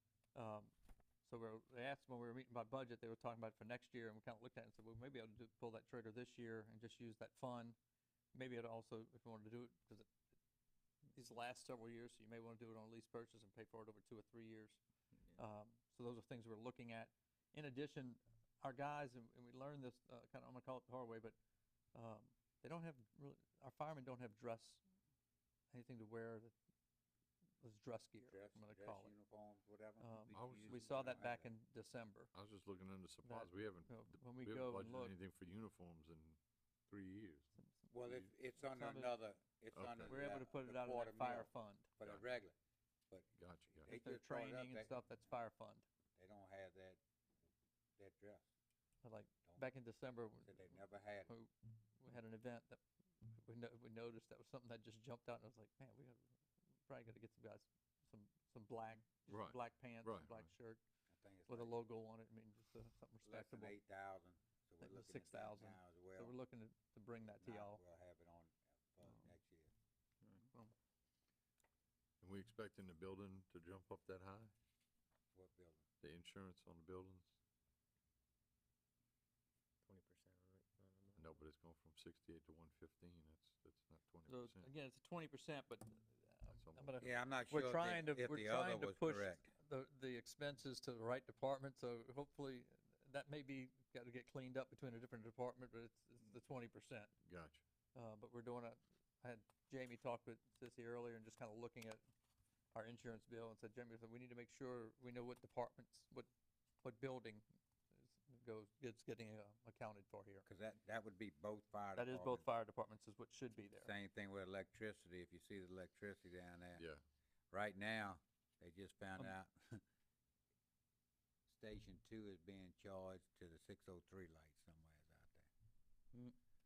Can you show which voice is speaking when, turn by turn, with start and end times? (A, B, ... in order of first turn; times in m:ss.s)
0:00.4-0:00.7 A
0:01.2-0:07.8 A
0:08.3-0:10.1 A
0:11.1-0:14.8 A
0:15.4-0:21.4 A
0:21.9-0:24.8 A
0:25.7-0:26.5 A
0:27.6-0:29.1 A
0:28.3-0:30.1 B
0:30.0-0:32.3 A
0:30.2-0:31.1 C
0:30.3-0:30.8 D
0:30.9-0:31.5 B
0:32.3-0:37.5 D
0:33.2-0:35.2 A
0:37.9-0:42.6 B
0:38.6-0:39.2 A
0:39.7-0:40.2 D
0:40.0-0:41.9 A
0:43.1-0:45.0 B
0:43.4-0:43.9 D
0:43.9-0:45.9 A
0:46.2-0:47.0 B
0:48.0-0:48.4 B
0:49.0-0:50.8 A
0:50.4-0:51.3 B
0:51.3-0:56.3 A
0:56.9-1:00.8 A
0:59.3-1:00.5 D
1:01.1-1:01.8 B
1:01.5-1:03.7 A
1:03.2-1:06.4 B
1:04.8-1:07.8 A
1:07.4-1:09.7 B
1:12.2-1:14.5 D
1:15.3-1:15.8 B
1:16.0-1:17.3 D
1:19.8-1:21.3 C
1:21.2-1:24.7 D
1:24.3-1:37.1 A
1:26.5-1:27.1 D
1:27.0-1:29.5 B
1:37.2-1:37.6 D
1:38.0-1:42.0 A
1:42.7-1:46.3 A
1:46.8-1:47.4 A
1:48.0-1:50.5 A
1:50.4-1:52.4 B
1:52.0-1:53.9 A
1:53.8-1:56.8 B
1:56.8-1:57.0 D
1:57.5-1:59.8 B
2:01.5-2:05.5 B